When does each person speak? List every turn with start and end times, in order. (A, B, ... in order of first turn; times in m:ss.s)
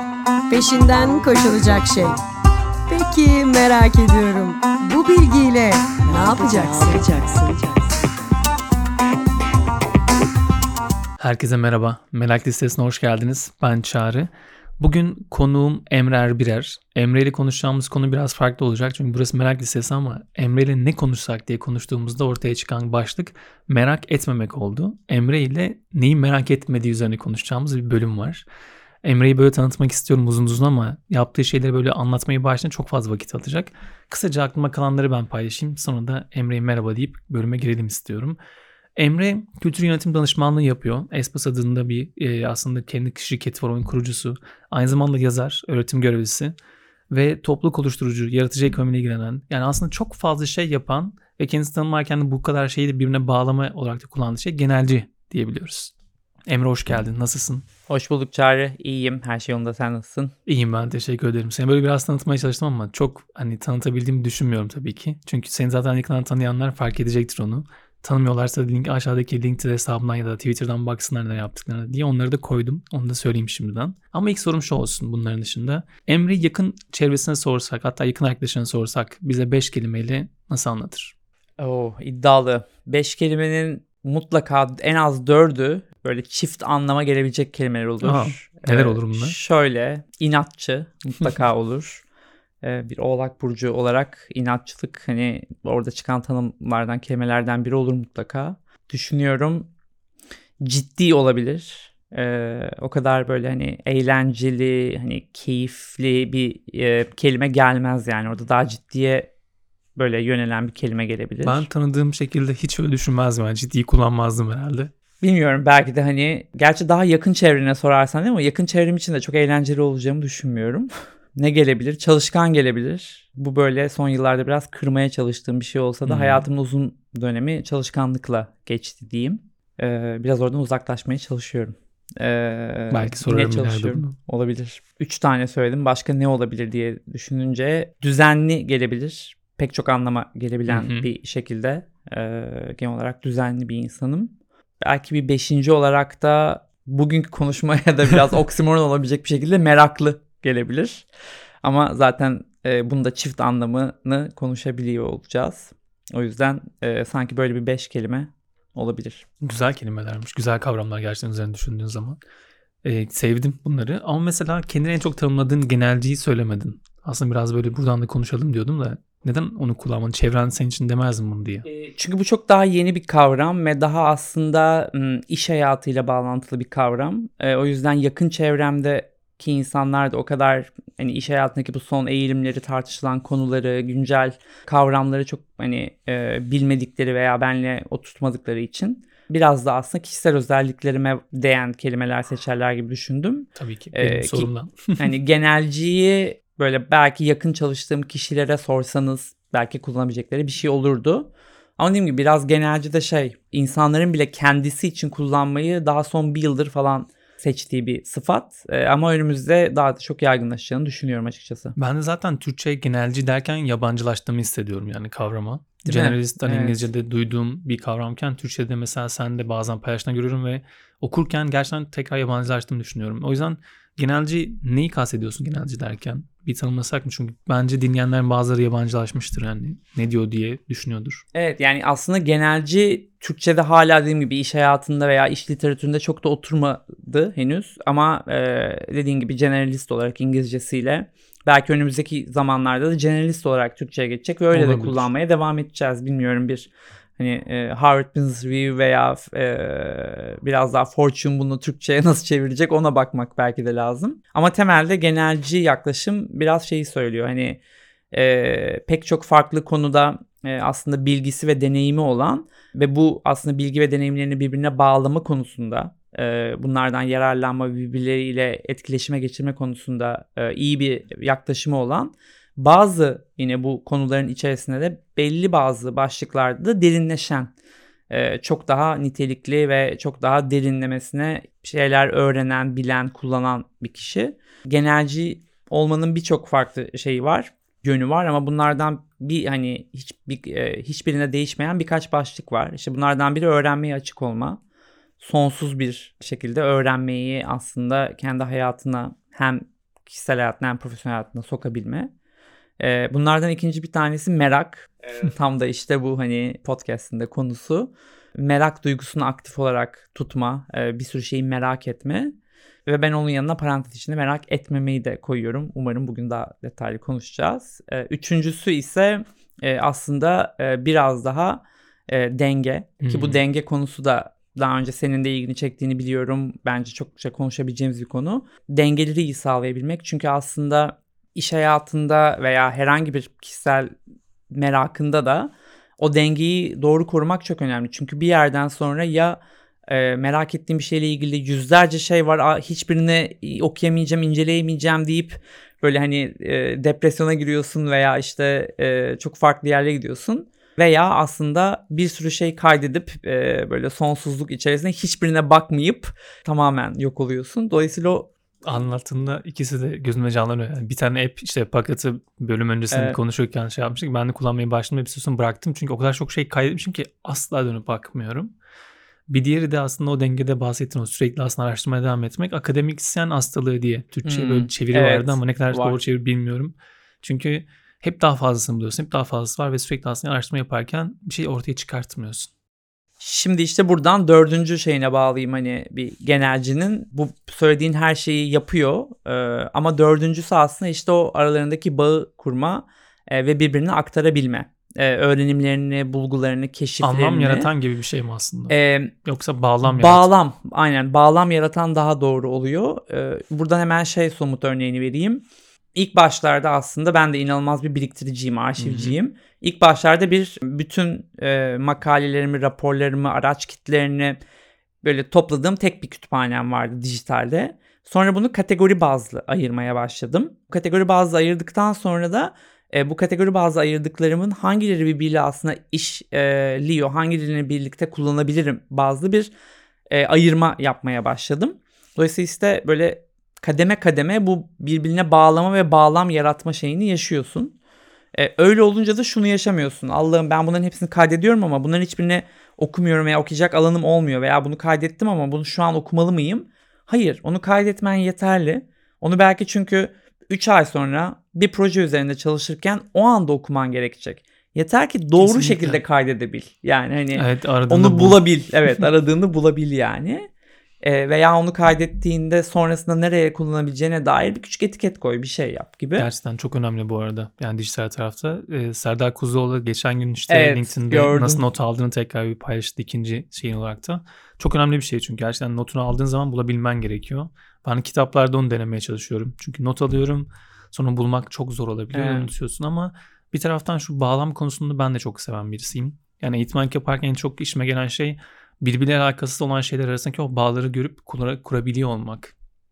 0:00.5-0:02.2 A
0:02.9-0:08.0 A
0:11.2-0:28.5 B
0:29.0-0:38.4 B
0:39.0-0:46.6 B
0:47.1-0:55.9 B
0:56.5-0:57.6 B
0:57.9-1:00.3 C
1:00.5-1:21.1 B
1:21.6-1:32.0 C
1:28.0-1:29.4 B
1:32.6-1:39.7 C
1:40.6-1:49.3 C
1:50.0-1:51.7 C
1:51.4-1:54.9 B
1:55.2-2:31.1 C
2:06.0-2:06.4 B
2:12.9-2:14.1 B
2:20.7-2:21.1 B
2:31.6-2:39.3 C
2:39.4-2:42.2 B
2:42.8-2:51.7 B
2:51.8-3:31.8 C
3:13.6-3:15.1 B
3:31.8-3:51.2 B
3:35.8-3:36.8 C
3:51.3-4:17.6 C
4:04.5-4:05.1 B
4:18.1-4:37.5 C
4:38.1-4:54.6 C
4:55.2-5:02.1 C
5:02.8-5:12.4 C
5:12.9-5:33.9 C
5:23.0-5:23.4 B
5:34.5-5:58.3 C
5:58.6-6:08.5 B
6:02.9-6:03.2 C
6:09.3-6:22.5 B
6:14.2-6:16.0 C
6:23.2-6:37.7 C
6:37.0-6:40.3 B
6:38.7-6:39.1 C
6:39.8-6:54.4 C
6:48.8-6:49.2 B
6:55.0-7:09.5 C
7:10.1-7:17.8 C
7:18.4-7:40.5 C
7:35.4-7:36.0 B
7:37.4-7:38.4 B
7:41.0-7:46.3 C
7:46.2-8:12.6 B
7:50.5-7:51.6 C
8:02.1-8:02.5 C